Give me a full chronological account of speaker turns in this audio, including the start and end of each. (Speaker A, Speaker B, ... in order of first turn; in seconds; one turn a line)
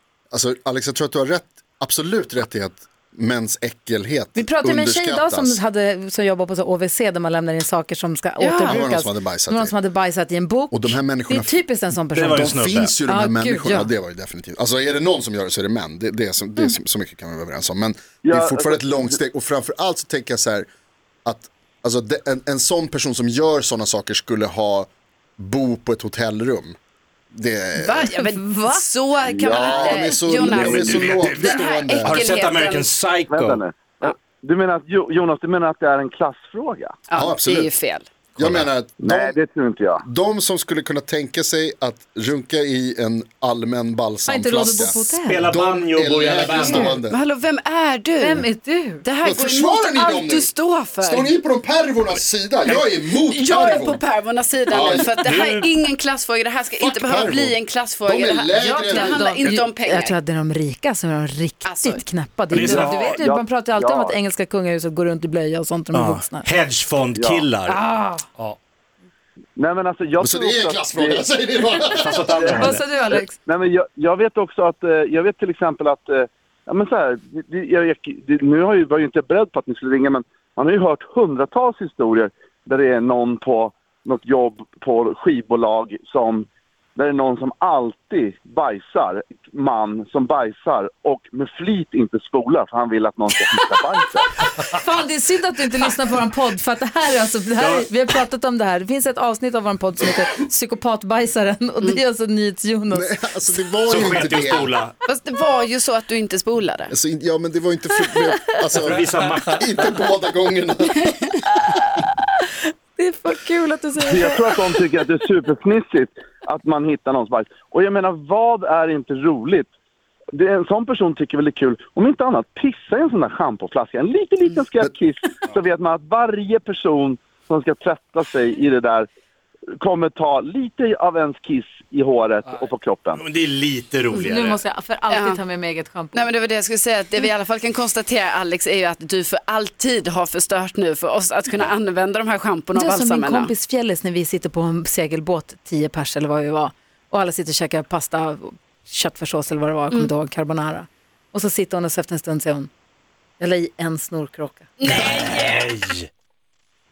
Speaker A: 0.3-5.6
Speaker B: 4.4-13.9
Speaker C: 8.4-8.8
Speaker A: 8.6-9.8
Speaker A: 10.7-20.7
Speaker D: 12.2-12.9
Speaker E: 18.2-19.2
Speaker A: 21.2-26.8
Speaker A: 27.3-28.2
Speaker C: 27.8-32.9
Speaker B: 28.1-28.9
Speaker A: 29.3-32.2
Speaker B: 29.5-30.1
Speaker D: 30.4-33.6
Speaker E: 33.3-37.0
Speaker C: 37.1-38.1
Speaker A: 37.1-37.7
Speaker D: 38.4-38.7
Speaker A: 38.4-39.3
Speaker E: 39.0-40.0
Speaker A: 40.0-47.2
Speaker B: 44.3-45.5
Speaker D: 45.1-47.0
Speaker B: 46.6-47.0
Speaker C: 47.0-48.5
Speaker B: 48.2-49.0
Speaker C: 49.0-51.4
Speaker A: 49.2-54.0
Speaker C: 52.7-60.2
Speaker A: 54.7-55.1
Speaker D: 55.1-55.7
Speaker A: 56.8-59.5
Speaker B: 58.6-66.5
Speaker C: 61.6-62.0
Speaker D: 62.5-63.1
Speaker E: 62.5-64.2
Speaker D: 65.9-67.8
Speaker E: 67.1-67.5
Speaker B: 67.7-68.3
Speaker E: 69.6-71.8
Speaker A: 70.2-72.4
Speaker D: 71.9-72.8
Speaker E: 72.3-72.8
Speaker B: 72.5-73.4
Speaker E: 73.4-94.2
Speaker B: 94.4-103.5
Speaker D: 97.6-97.9
Speaker A: 102.9-104.7
Speaker D: 103.9-104.9
Speaker C: 105.1-106.9
Speaker A: 106.9-111.2
Speaker D: 108.7-109.6
Speaker B: 111.7-112.1
Speaker B: 113.0-114.5
Speaker E: 114.0-119.7
Speaker E: 120.3-129.1
Speaker E: 129.8-133.2
Speaker D: 133.2-134.6
Speaker B: 134.1-136.3
Speaker C: 135.1-135.4
Speaker C: 136.1-143.5
Speaker B: 142.7-152.7
Speaker B: 153.4-154.7
Speaker C: 154.8-155.6
Speaker D: 154.9-156.1